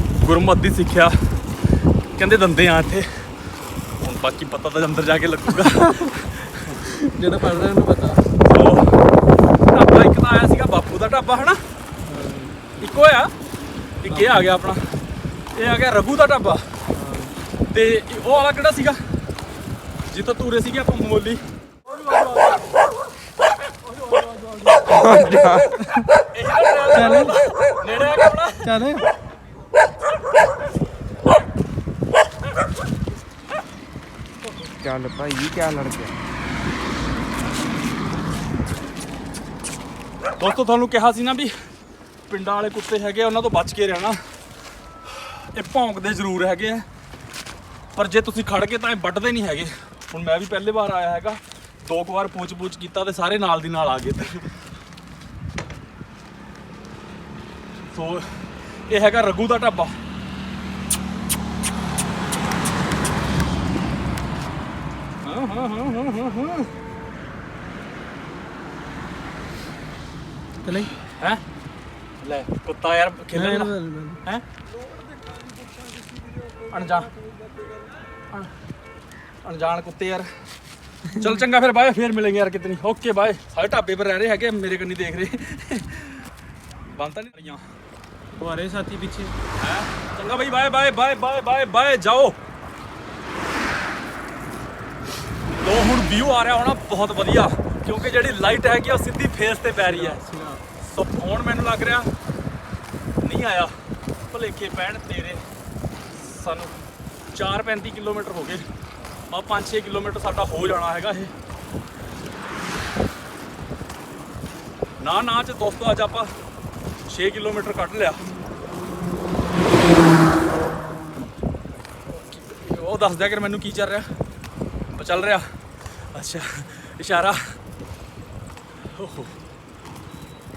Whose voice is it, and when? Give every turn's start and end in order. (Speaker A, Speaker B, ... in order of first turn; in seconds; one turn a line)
Speaker A: 0.2-1.2
Speaker A: 2.2-3.3
Speaker A: 4.0-6.8
Speaker B: 6.8-8.2
Speaker A: 8.5-9.0
Speaker A: 9.7-11.6
Speaker B: 12.1-12.6
Speaker A: 12.8-13.3
Speaker A: 14.0-15.0
Speaker A: 15.6-16.7
Speaker B: 16.9-17.3
Speaker A: 17.7-19.0
Speaker A: 20.1-22.8
Speaker A: 23.7-28.8
Speaker B: 24.9-26.1
Speaker C: 25.2-25.6
Speaker B: 26.9-27.4
Speaker B: 28.6-29.1
Speaker C: 34.7-36.2
Speaker A: 40.4-41.5
Speaker A: 42.3-44.2
Speaker A: 45.1-46.9
Speaker A: 48.0-54.5
Speaker A: 57.9-58.4
Speaker A: 58.9-60.0
Speaker A: 65.2-66.7
Speaker B: 70.6-70.9
Speaker A: 72.2-74.5
Speaker B: 73.3-74.2
Speaker A: 76.7-77.1
Speaker A: 79.4-80.3
Speaker A: 81.1-86.3
Speaker A: 86.9-87.7
Speaker B: 88.4-89.3
Speaker A: 89.6-92.4
Speaker A: 95.6-100.2
Speaker B: 99.8-100.6
Speaker A: 100.8-102.1
Speaker A: 103.2-103.7
Speaker A: 104.3-105.4
Speaker A: 106.2-106.8
Speaker A: 107.3-108.7
Speaker A: 109.3-111.3
Speaker A: 115.0-116.3
Speaker A: 117.1-118.2
Speaker A: 122.1-124.1
Speaker A: 124.9-125.5
Speaker A: 126.1-127.6
Speaker A: 128.9-129.4